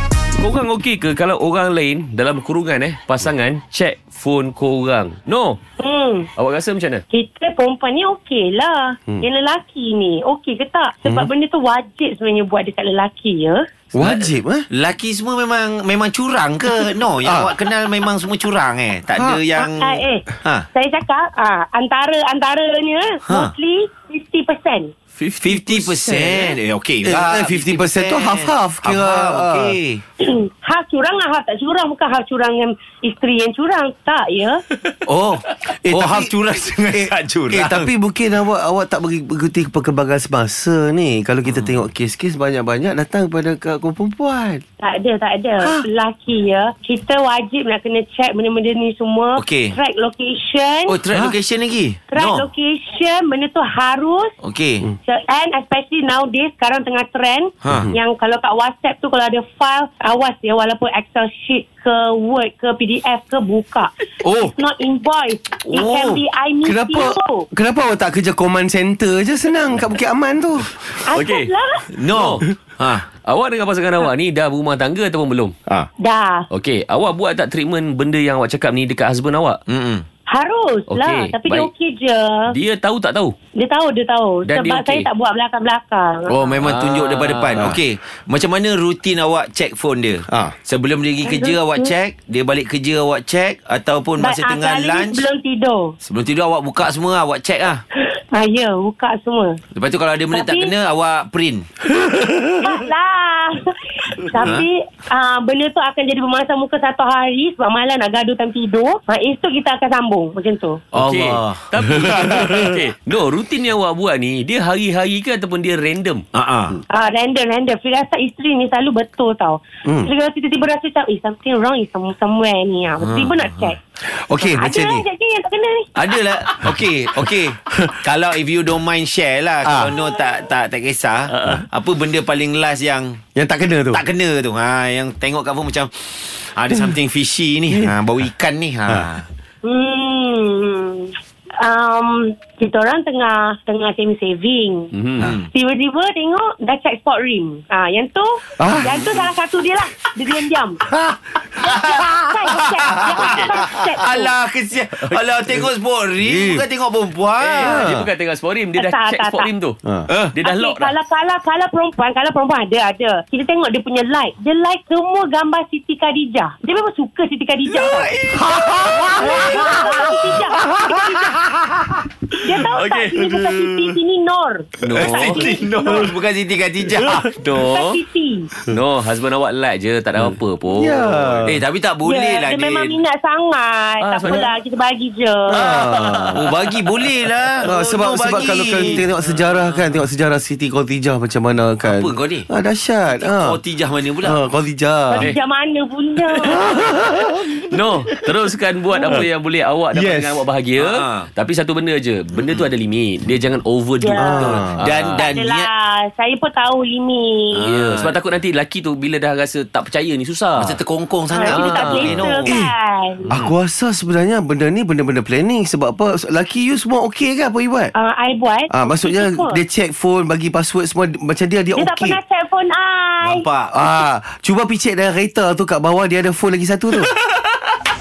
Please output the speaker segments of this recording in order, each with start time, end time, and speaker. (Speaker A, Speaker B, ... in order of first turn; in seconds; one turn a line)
Speaker A: 0.4-5.6
Speaker B: 5.8-6.3
Speaker A: 6.3-7.0
Speaker B: 7.1-13.6
Speaker C: 13.9-14.7
Speaker D: 13.9-20.7
Speaker C: 17.2-17.5
Speaker C: 19.1-19.4
Speaker B: 19.6-24.9
Speaker D: 23.2-23.5
Speaker A: 25.2-26.5
Speaker D: 25.4-30.0
Speaker C: 27.0-29.8
Speaker B: 30.2-34.6
Speaker D: 35.0-37.9
Speaker C: 35.8-36.3
Speaker C: 37.5-44.6
Speaker D: 41.5-41.8
Speaker B: 44.8-51.0
Speaker C: 45.6-45.9
Speaker D: 49.4-49.8
Speaker D: 50.9-52.5
Speaker B: 52.1-54.3
Speaker D: 54.4-54.9
Speaker B: 55.0-63.9
Speaker D: 57.6-57.9
Speaker C: 57.7-57.9
Speaker B: 64.5-67.5
Speaker D: 65.7-66.2
Speaker C: 66.6-71.1
Speaker B: 71.0-71.9
Speaker A: 71.1-71.5
Speaker D: 71.9-73.1
Speaker A: 72.1-72.5
Speaker A: 73.1-75.5
Speaker B: 76.0-76.5
Speaker A: 76.5-79.6
Speaker D: 79.7-80.0
Speaker B: 80.3-82.5
Speaker A: 80.9-81.7
Speaker A: 82.5-83.3
Speaker B: 83.5-86.4
Speaker A: 84.4-85.1
Speaker D: 86.3-95.2
Speaker A: 86.6-87.8
Speaker C: 90.3-90.5
Speaker B: 91.2-91.9
Speaker B: 94.2-96.0
Speaker D: 96.0-97.8
Speaker B: 98.0-99.6
Speaker D: 99.7-101.7
Speaker B: 100.3-100.7
Speaker C: 102.0-102.7
Speaker B: 102.6-110.8
Speaker A: 110.9-116.2
Speaker D: 110.9-112.7
Speaker C: 112.0-112.6
Speaker D: 116.3-116.8
Speaker B: 116.9-123.8
Speaker D: 123.0-123.7
Speaker C: 124.0-125.0
Speaker B: 124.4-125.9
Speaker D: 125.9-133.2
Speaker C: 129.6-129.9
Speaker A: 131.3-131.6
Speaker C: 133.3-134.0
Speaker D: 133.9-139.2
Speaker B: 139.6-144.9
Speaker A: 144.9-145.3
Speaker D: 145.2-145.5
Speaker B: 145.5-150.8
Speaker C: 148.6-149.0
Speaker C: 150.9-151.2
Speaker B: 151.6-154.3
Speaker D: 151.6-152.0
Speaker D: 152.9-157.9
Speaker A: 153.1-153.6
Speaker C: 156.2-156.6
Speaker A: 157.4-159.8
Speaker C: 157.6-158.1
Speaker B: 158.8-159.5
Speaker D: 160.1-160.3
Speaker A: 160.3-160.9
Speaker B: 160.4-168.1
Speaker D: 167.7-170.4
Speaker C: 168.5-170.0
Speaker B: 168.9-171.4
Speaker B: 172.4-176.1
Speaker A: 172.7-173.3
Speaker A: 174.8-175.5
Speaker D: 174.9-177.4
Speaker A: 177.0-178.0
Speaker B: 177.6-178.5
Speaker A: 178.7-181.5
Speaker C: 180.7-181.6
Speaker D: 181.4-183.0
Speaker B: 182.0-185.7
Speaker A: 184.0-184.5
Speaker C: 185.5-186.4
Speaker A: 185.5-186.6
Speaker D: 186.3-189.1
Speaker C: 187.6-193.6
Speaker A: 188.9-190.0
Speaker D: 191.8-192.5
Speaker D: 193.1-194.4
Speaker C: 194.2-195.3
Speaker B: 195.1-196.7
Speaker C: 196.4-197.6
Speaker A: 197.6-205.3
Speaker C: 199.0-199.3
Speaker C: 199.9-200.4
Speaker D: 200.8-201.3
Speaker D: 202.3-202.6
Speaker B: 204.0-204.6
Speaker C: 204.1-204.9
Speaker D: 204.8-205.7
Speaker B: 205.2-207.6
Speaker D: 207.5-208.2
Speaker A: 207.7-210.8
Speaker D: 210.6-212.5
Speaker B: 211.3-213.3
Speaker A: 211.4-212.4
Speaker C: 212.5-212.7
Speaker C: 213.3-217.9
Speaker B: 217.9-219.6
Speaker C: 218.7-222.2
Speaker B: 221.7-223.4
Speaker D: 223.2-223.8
Speaker C: 223.7-227.1